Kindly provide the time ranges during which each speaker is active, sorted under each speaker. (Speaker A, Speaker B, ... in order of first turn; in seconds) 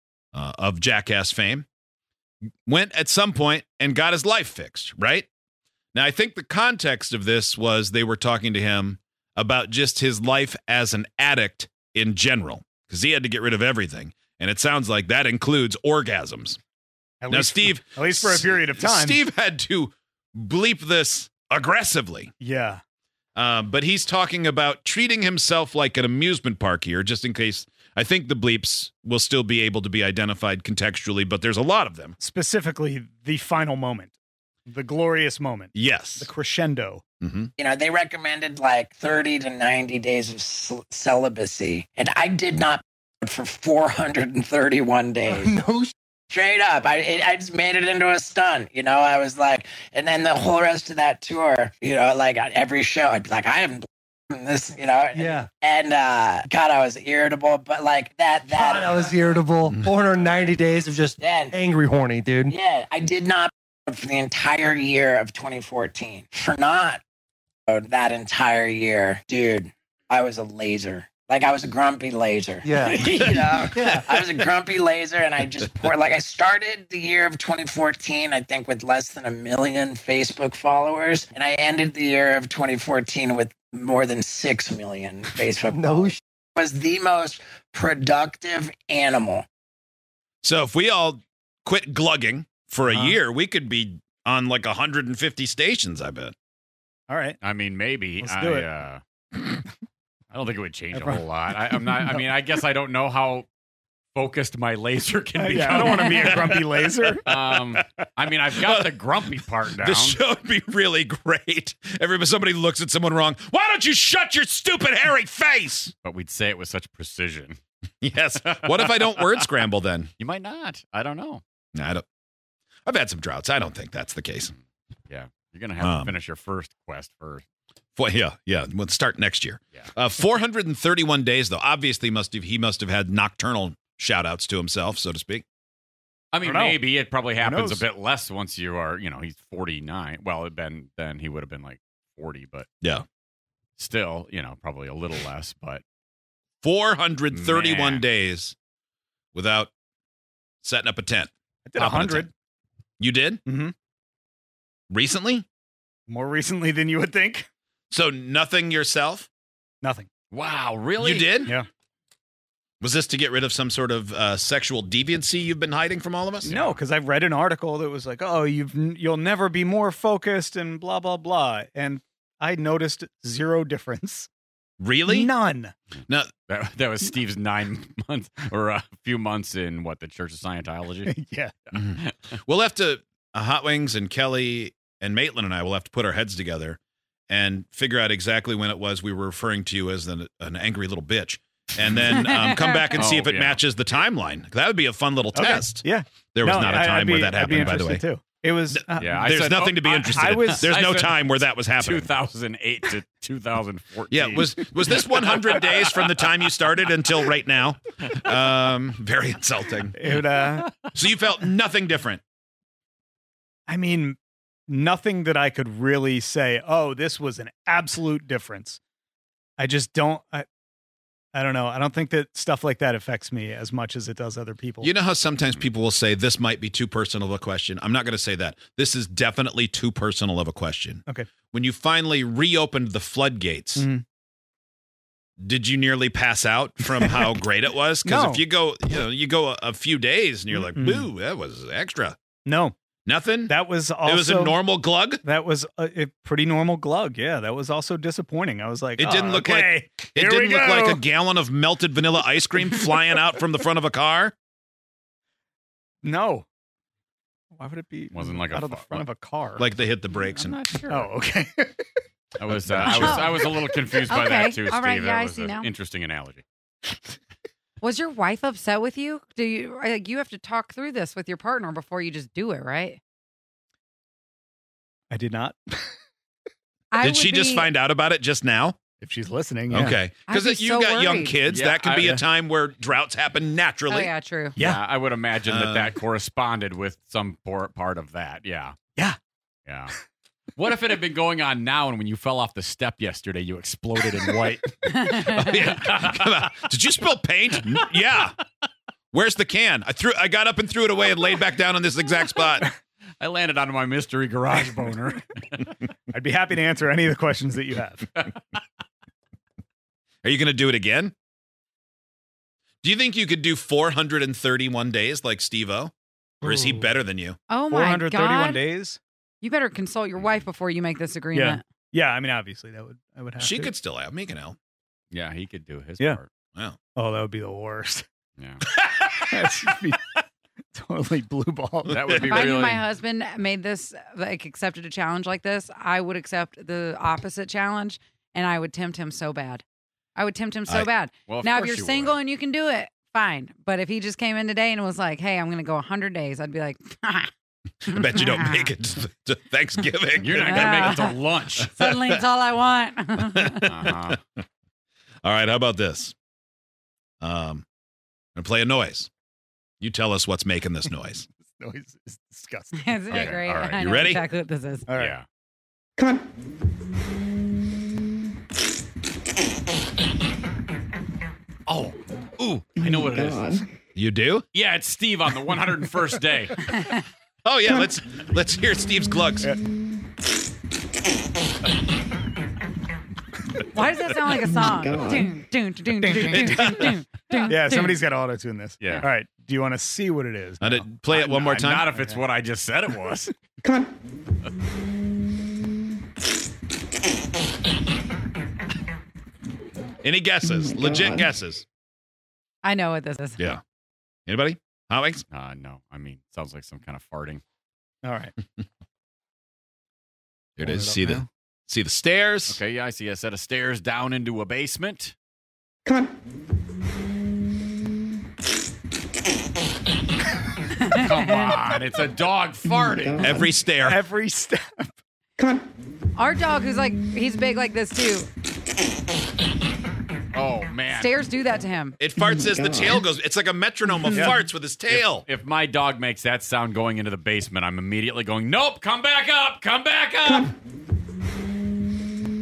Speaker A: 0.3-1.7, 2.7-5.3, 5.9-16.6, 17.3-22.3, 23.4-32.2, 35.7-36.3, 37.2-37.5, 90.4-96.3, 105.8-107.8, 108.6-108.9, 109.8-115.9, 118.0-120.1, 121.8-122.0, 122.9-124.5, 125.8-126.1, 128.0-135.4, 146.6-148.6, 149.3-149.7, 150.6-152.3, 153.0-153.4, 154.9-155.5, 157.9-159.3, 161.0-161.5, 162.8-166.6, 174.8-175.3, 181.7-198.0, 198.7-202.1, 204.1-210.0, 210.9-212.2, 224.8-233.9, 235.4-242.2, 243.1-245.2, 249.0-254.3, 259.6-260.6, 262.5-263.3, 277.0-278.8, 279.7-284.1, 285.5-285.9, 295.1-298.4, 299.1-302.7, 310.2-311.1, 312.8-317.4, 323.4-324.6, 328.8-329.7, 347.9-351.0, 351.6-352.2, 353.4-354.0, 355.2-356.1, 357.2-357.6, 358.4-359.1, 359.8-361.3, 363.2-364.2, 373.9-374.5, 377.4-379.5, 386.3-386.9, 390.6-391.9, 400.0-401.6, 404.3-405.2, 410.6-412.6, 423.2-424.0, 432.0-435.3
Speaker B: 17.2-19.2, 22.4-22.8, 32.2-34.1, 34.7-37.0, 92.9-93.2, 97.1-97.4, 98.2-98.7, 100.9-102.2, 105.4-107.3, 136.4-136.8, 137.4-137.9, 151.7-152.3, 153.4-153.8, 156.1-157.5, 159.8-160.1, 166.5-174.3, 175.1-175.7, 181.1-181.5, 195.3-199.5, 200.1-201.0, 209.9-210.7, 213.7-218.8, 219.6-220.5, 221.3-224.9, 233.8-234.0, 236.8-237.4, 238.0-238.5, 240.5-241.1, 242.4-242.8, 243.5-244.6, 245.2-251.1, 256.0-256.5, 257.5-259.8, 260.9-262.0, 275.1-276.0, 279.0-280.0, 284.6-284.8, 306.1-308.1, 316.4-316.9, 317.7-319.0, 321.3-323.7, 326.9-328.1, 329.3-330.2, 330.7-332.4, 361.5-363.2, 364.9-365.2, 386.0-386.9, 387.5-392.2, 408.0-408.4, 410.6-411.2, 423.9-424.9, 434.1-434.4
Speaker C: 37.6-45.5, 46.3-59.1, 61.2-61.5, 62.5-67.0, 67.7-89.5
Speaker D: 45.3-45.9, 55.1-55.5, 58.5-62.6, 72.7-74.1, 85.6-86.2
Speaker E: 97.4-99.0, 100.3-103.5, 104.2-106.6, 107.2-110.2, 116.0-117.6, 118.4-119.5, 120.2-121.4, 125.1-127.5, 136.3-142.7, 143.8-145.8, 147.3-148.1, 160.3-161.5, 166.4-166.8, 176.5-181.1, 181.7-182.1, 192.9-193.6, 199.0-206.3, 258.1-259.0, 260.1-261.1, 262.4-266.4, 281.5-282.2, 284.6-288.8, 289.7-289.9, 290.6-296.5, 303.2-305.8, 308.2-308.6, 325.1-326.3, 331.9-332.9, 341.3-342.2, 350.2-351.8, 353.7-354.2, 363.1-363.8, 364.9-365.2, 371.7-373.7, 374.5-376.8, 391.4-393.3, 405.3-407.4, 412.5-415.1, 420.9-423.5, 430.3-431.1, 434.9-440.5
Speaker F: 192.2-193.0, 262.9-263.3, 264.1-265.7, 267.8-273.0, 276.9-277.7, 280.3-281.4, 283.9-284.6, 294.9-295.4, 317.5-318.6, 319.4-321.6, 332.2-339.6, 340.2-347.3, 347.9-348.7, 350.4-351.2, 351.8-353.8, 362.7-364.9, 376.7-377.0, 383.7-388.0, 402.6-403.4, 420.8-421.1, 426.2-428.3, 430.9-432.0